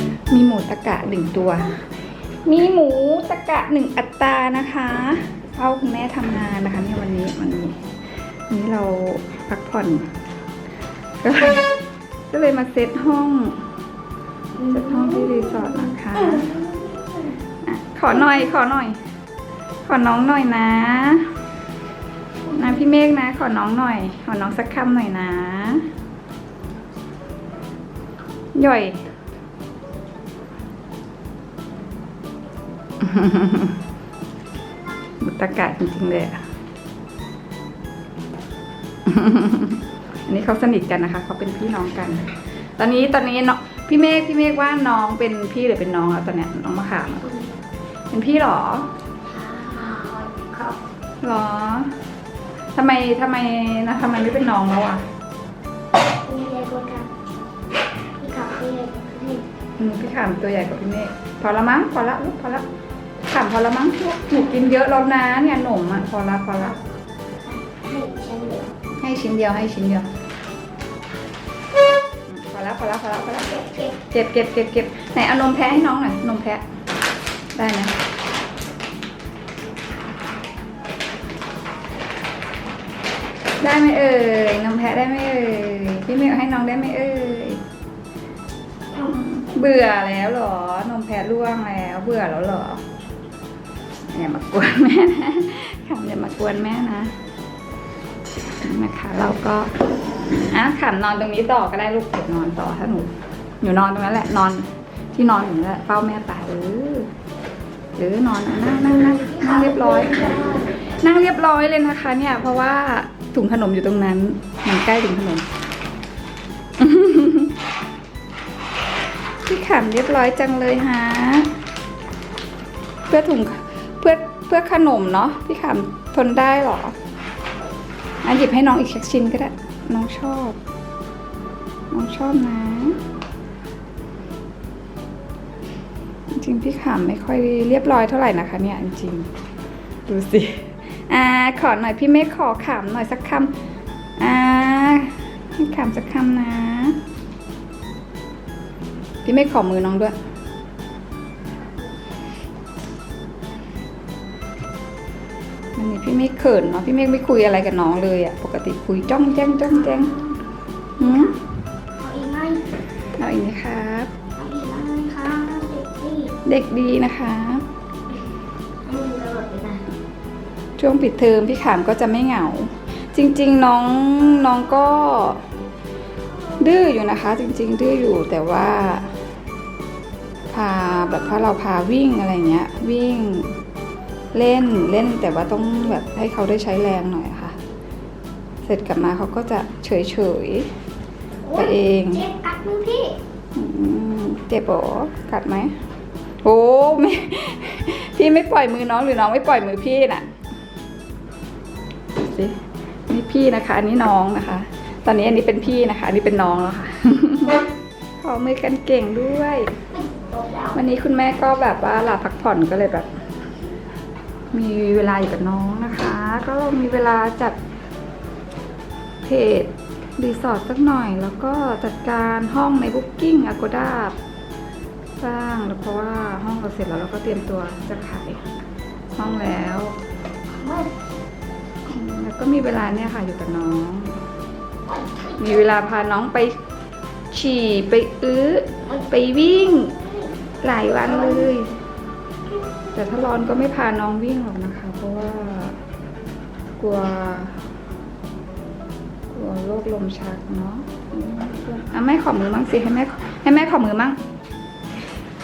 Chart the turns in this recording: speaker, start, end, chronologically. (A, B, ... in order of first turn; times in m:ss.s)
0:00.3-0:01.9 A
0:02.4-0:07.8 A
0:08.5-0:10.1 A
0:11.2-0:11.7 A
0:12.3-0:13.7 A
0:14.6-0:17.4 B
0:14.7-0:16.5 A
0:17.6-0:19.0 A
0:18.1-0:18.5 B
0:19.9-0:21.3 A
0:22.5-0:22.8 B
0:22.6-0:25.9 A
0:28.6-0:29.0 A
0:33.0-0:33.8 A
0:35.2-0:36.4 A
0:39.1-0:47.3 A
0:47.2-0:47.5 B
0:48.1-0:48.9 A
0:49.3-0:50.8 B
0:51.2-0:51.9 A
0:52.8-0:55.0 A
0:56.2-0:57.1 B
0:58.2-0:59.4 B
0:59.8-1:02.6 A
1:03.3-1:06.8 A
1:07.4-1:08.7 B
1:09.0-1:10.1 A
1:12.3-1:16.6 A
1:13.4-1:13.9 B
1:17.6-1:18.0 A
1:23.6-1:27.6 A
1:29.1-1:32.8 A
1:34.1-1:37.2 A
1:38.6-1:39.7 A
1:40.4-1:47.1 A
1:48.0-1:55.5 A
1:48.9-1:50.8 B
1:56.8-1:57.6 A
1:59.4-2:01.5 A
2:03.1-2:07.0 A
2:08.2-2:10.6 A
2:11.9-2:13.0 A
2:16.3-2:19.3 A
2:20.1-2:23.5 A
2:24.2-2:27.0 A
2:29.2-2:30.2 A
2:35.8-2:40.2 A
2:39.6-2:40.4 B
2:41.0-2:41.3 A
2:41.0-2:41.4 B
2:42.0-2:42.7 B
2:43.2-2:44.1 A
2:44.4-2:46.4 B
2:46.4-2:47.6 A
2:48.8-2:49.8 B
2:50.8-2:55.4 A
2:56.6-2:59.1 A
3:00.5-3:03.6 A
3:04.3-3:07.6 A
3:08.6-3:10.7 A
3:11.4-3:13.1 B
3:11.5-3:12.2 A
3:13.6-3:15.8 A
3:16.4-3:20.3 A
3:22.2-3:27.6 A
3:28.2-3:29.8 A
3:30.0-3:30.8 B
3:30.7-3:33.1 A
3:34.5-3:37.6 A
3:39.2-3:44.2 A
3:45.2-3:48.5 A
3:49.1-3:50.0 A
3:50.5-3:50.9 B
3:51.9-3:54.2 A
3:54.9-3:55.4 B
3:55.4-3:56.6 A
3:57.3-4:00.0 A
4:00.0-4:00.2 B
4:00.6-4:01.7 A
4:01.0-4:01.5 B
4:02.9-4:05.8 A
4:06.8-4:07.6 A
4:09.3-4:14.2 A